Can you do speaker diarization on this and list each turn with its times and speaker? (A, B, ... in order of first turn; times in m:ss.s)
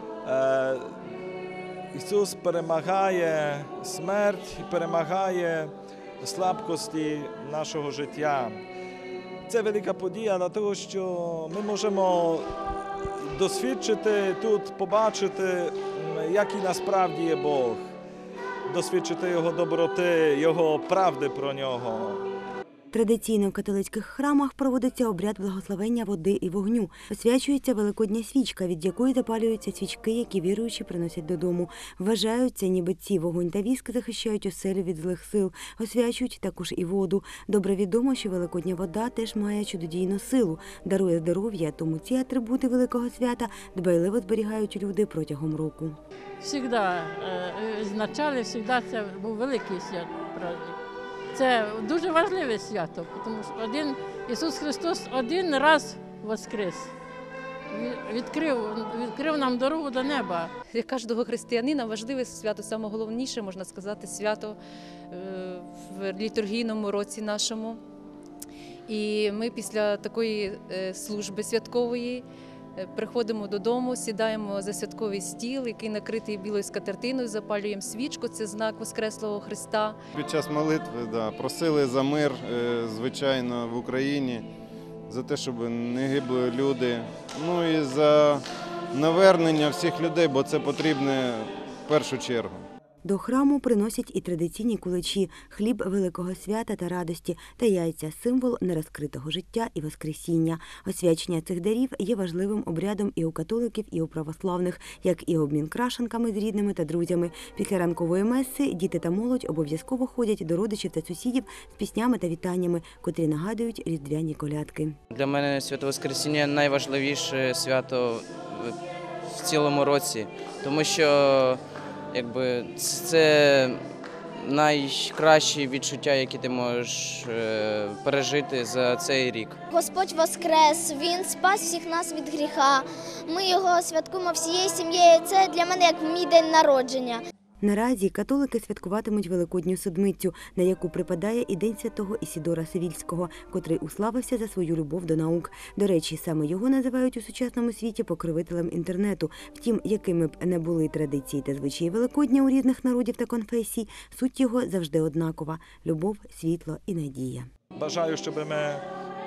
0:00.2-0:00.8 A
0:01.9-0:05.7 A
0:06.2-0:08.6 A
0:09.5-0:12.5 A
0:13.4-0:17.8 A
0:18.7-0:22.2 A
0:22.9-0:46.0 B
0:46.4-0:50.8 C
0:51.3-0:56.9 C
0:57.7-1:00.5 C
1:00.7-1:04.6 D
1:05.1-1:07.8 D
1:08.9-1:12.2 D
1:12.8-1:20.0 D
1:20.1-1:24.5 E
1:25.1-1:32.6 E
1:33.0-1:55.0 B
1:55.1-1:58.8 F
1:59.3-2:01.6 F
2:02.1-2:03.8 F
2:04.4-2:09.6 F
2:09.7-2:17.2 G
2:17.6-2:37.5 B
2:37.8-2:38.8 A